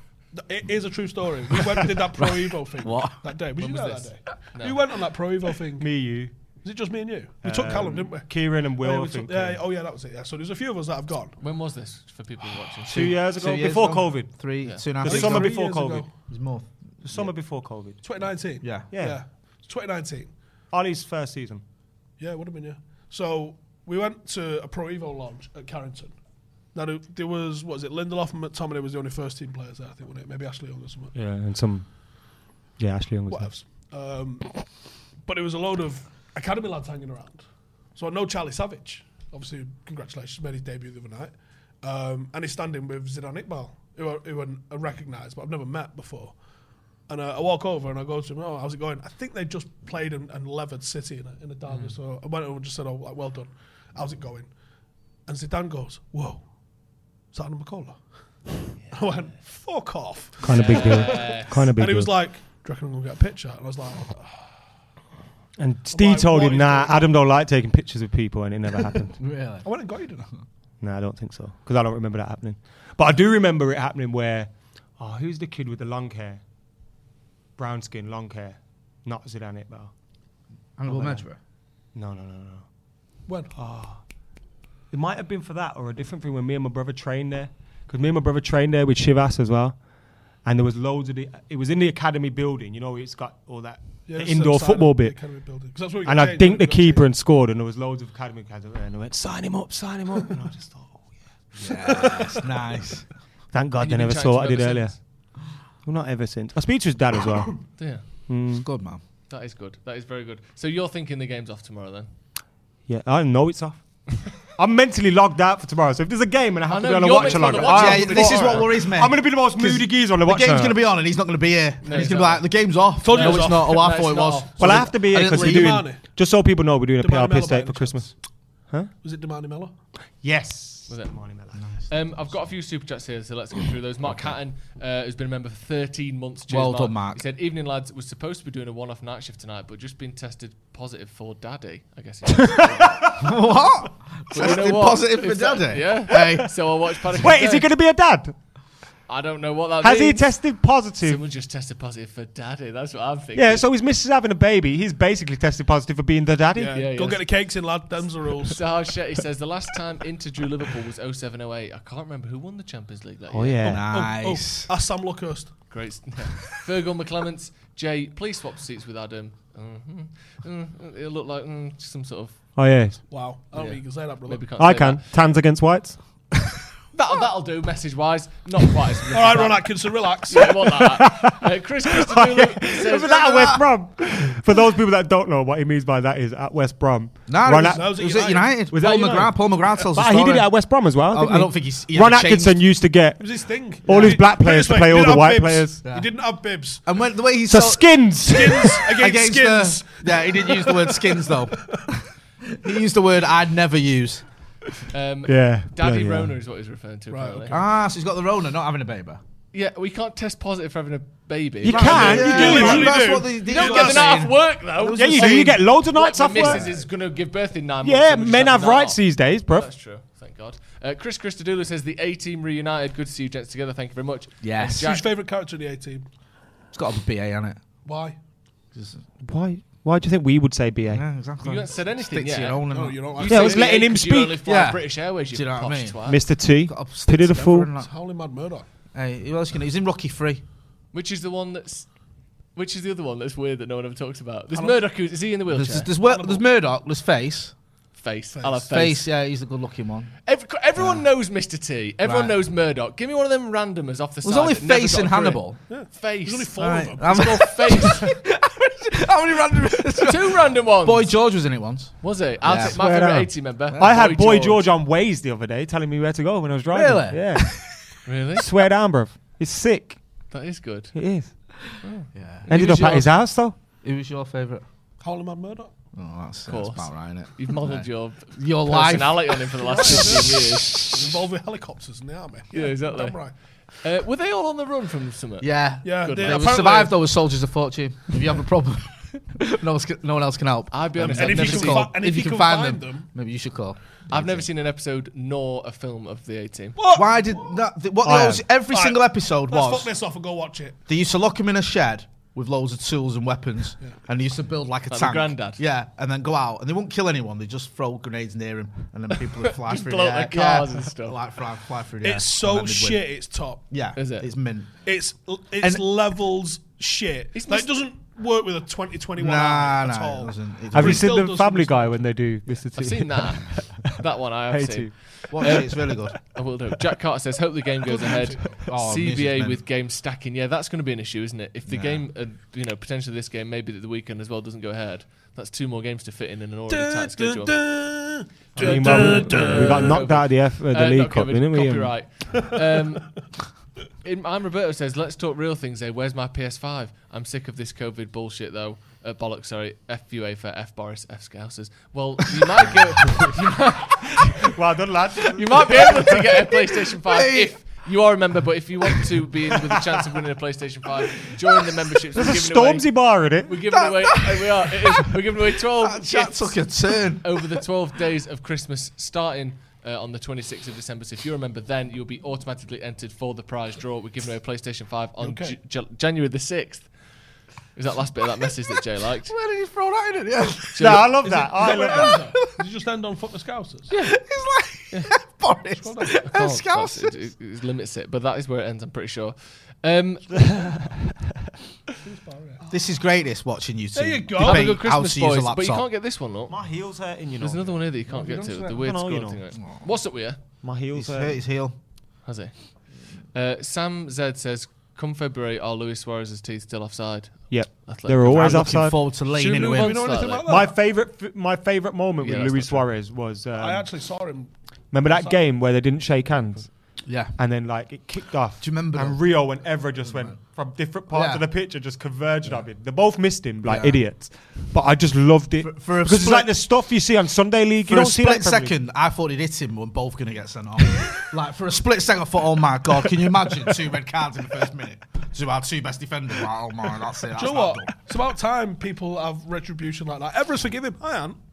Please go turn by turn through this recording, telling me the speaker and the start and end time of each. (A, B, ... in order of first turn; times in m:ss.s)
0:00.3-0:05.9 A
0:02.8-0:03.2 B
0:03.6-0:04.8 C
0:05.8-0:06.3 D
0:06.6-0:11.4 A
0:07.4-0:09.6 D
0:11.4-0:13.2 C
0:12.9-0:16.1 D
0:12.9-0:15.6 B
0:15.0-0:16.1 A
0:16.3-0:17.3 B
0:17.0-0:18.1 D
0:18.0-0:20.3 A
0:18.6-0:18.9 B
0:18.9-0:19.2 D
0:20.7-0:21.6 D
0:22.2-0:26.1 A
0:26.7-0:31.2 A
0:31.1-0:33.5 D
0:33.3-0:46.4 A
0:47.0-0:54.5 A
0:51.7-0:52.0 C
0:55.2-0:56.5 A
0:57.3-0:58.1 A
0:58.9-1:04.5 A
1:00.4-1:02.2 D
1:00.5-1:01.6 C
1:05.6-1:09.2 D
1:05.9-1:07.1 A
1:09.2-1:09.7 B
1:09.6-1:10.3 A
1:10.8-1:16.4 D
1:17.6-1:19.9 D
1:20.8-1:21.4 B
1:20.8-1:21.2 D
1:22.0-1:22.7 D
1:23.3-1:23.5 A
1:23.6-1:24.0 D
1:24.9-1:29.8 D
1:30.4-1:35.4 D
1:34.1-1:37.1 A
1:36.0-1:41.2 D
1:41.6-1:43.1 B
1:43.5-1:45.1 D
1:43.8-1:45.0 C
1:45.8-1:48.7 D
1:47.8-1:48.0 C
1:48.5-1:49.0 B
1:49.3-1:52.1 C
1:52.9-2:00.8 D
1:56.7-1:58.7 C
1:57.2-2:05.9 B
2:01.8-2:02.5 C
2:03.0-2:06.0 A
2:03.0-2:04.5 C
2:04.6-2:08.9 D
2:07.0-2:08.2 A
2:09.0-2:09.7 A
2:10.2-2:11.6 D
2:10.9-2:23.2 C
2:11.6-2:12.4 B
2:14.1-2:14.4 B
2:16.5-2:17.2 B
2:22.5-2:23.3 D
2:23.2-2:26.5 B
2:24.3-2:27.7 C
2:27.2-2:28.4 D
2:29.1-2:30.4 C
2:29.8-2:31.2 D
2:31.0-2:33.6 C
2:33.4-2:36.8 D
2:36.6-2:38.7 A
2:36.7-2:37.3 C
2:38.5-2:43.6 C
2:43.3-2:43.9 D
2:43.6-2:45.7 A
2:43.7-2:44.7 B
2:45.7-2:52.7 C
2:52.6-2:53.0 D
2:53.1-2:54.4 A
2:53.5-2:55.0 C
2:54.6-2:56.0 D
2:56.9-3:03.3 C
2:59.1-3:00.6 A
3:00.4-3:01.5 D
3:02.0-3:08.1 D
3:03.0-3:03.7 B
3:07.3-3:12.6 B
3:07.6-3:08.6 A
3:08.7-3:15.8 D
3:13.2-3:16.8 A
3:13.9-3:14.2 B
3:15.8-3:16.1 B
3:16.8-3:24.2 B
3:17.5-3:18.9 D
3:18.3-3:21.8 A
3:24.9-3:27.6 C
3:25.3-3:26.3 D
3:27.1-3:27.6 A
3:27.5-3:29.2 B
3:29.5-3:45.0 C
3:31.6-3:33.0 D
3:31.6-3:35.7 B
3:31.8-3:34.3 A
3:35.0-3:36.7 D
3:36.4-3:36.8 B
3:36.5-3:36.8 A
3:37.8-3:39.7 D
3:44.4-3:45.0 B
3:44.8-3:46.1 A
3:46.7-3:47.6 B
3:47.8-3:48.2 A
3:48.7-3:49.0 B
3:49.2-3:51.0 D
3:50.9-3:53.0 B
3:51.4-3:56.2 C
3:52.7-3:53.8 A
3:53.2-3:54.4 D
3:54.4-3:57.9 B
3:56.1-3:57.7 D
3:57.8-3:58.6 A
3:58.9-4:00.4 B
4:00.9-4:05.9 C
4:05.5-4:07.6 B
4:06.0-4:06.4 A
4:07.9-4:09.1 C
4:08.4-4:08.7 A
4:08.7-4:10.2 B
4:10.3-4:18.1 C
4:10.8-4:11.0 B
4:12.0-4:12.4 B
4:14.2-4:15.7 B
4:15.7-4:17.9 A
4:16.6-4:22.8 B
4:20.0-4:21.3 C
4:22.0-4:24.7 C
4:22.5-4:27.7 D
4:23.7-4:24.0 B
4:26.7-4:27.6 B
4:28.0-4:28.5 C
4:28.4-4:30.2 D
4:30.3-4:31.0 C
4:30.9-4:31.5 D
4:31.8-4:33.1 C
4:32.1-4:33.2 B
4:32.5-4:33.6 D
4:33.8-4:34.6 B
4:35.0-4:35.7 A
4:35.9-4:40.4 B
4:36.5-4:40.9 C
4:39.6-4:43.3 A
4:42.5-4:46.7 C
4:45.4-4:54.5 B
4:45.8-4:47.0 A
4:50.7-4:51.9 C
4:51.0-4:53.1 A
4:54.1-4:56.8 C
4:56.8-4:57.6 A
4:56.9-4:59.9 B
4:58.0-4:58.4 D
4:58.7-5:00.8 A
5:00.9-5:13.1 B
5:04.9-5:05.6 C
5:09.3-5:11.2 C
5:12.0-5:13.6 A
5:13.7-5:14.9 B
5:14.0-5:14.3 C
5:14.8-5:22.1 A
5:17.3-5:17.7 C
5:19.2-5:21.2 B
5:20.7-5:24.0 D
5:22.8-5:37.6 C
5:24.5-5:25.7 D
5:25.3-5:26.2 B
5:27.8-5:28.6 A
5:28.6-5:29.6 B
5:31.7-5:32.0 B
5:36.7-5:40.0 A
5:38.6-5:42.0 D
5:38.6-5:43.1 C
5:44.0-5:54.5 C
5:54.2-5:56.3 D
5:55.3-6:06.6 C
5:56.4-5:57.5 B
6:02.2-6:03.6 D
6:03.7-6:07.6 B
6:07.2-6:16.9 C
6:15.2-6:15.6 A
6:17.7-6:19.4 C
6:19.3-6:21.1 B
6:20.8-6:21.0 C
6:20.8-6:22.2 D
6:21.2-6:23.9 A
6:21.8-6:22.4 B
6:23.9-6:27.2 B
6:25.8-6:26.2 A
6:26.2-6:30.6 C
6:30.3-6:31.3 D
6:32.0-6:32.6 A
6:32.7-6:35.9 B
6:34.0-6:34.8 A
6:34.4-6:36.6 C
6:36.5-6:37.9 D
6:37.4-6:40.4 C
6:38.7-6:39.4 D
6:39.6-6:39.8 B
6:40.6-6:41.4 D
6:40.9-6:41.8 B
6:42.2-6:48.8 C
6:47.5-6:49.0 D
6:48.2-6:50.2 B
6:49.3-6:50.5 C
6:49.5-6:50.8 A
6:50.5-6:53.9 D
6:52.2-6:52.9 C
6:53.6-6:54.5 A
6:54.9-7:08.7 D
6:55.0-6:55.4 A
6:57.0-6:57.4 B
6:58.6-6:59.2 B
7:00.1-7:00.3 B
7:01.1-7:01.5 B
7:03.6-7:04.0 B
7:05.6-7:06.5 B
7:07.9-7:17.9 B
7:17.3-7:21.4 A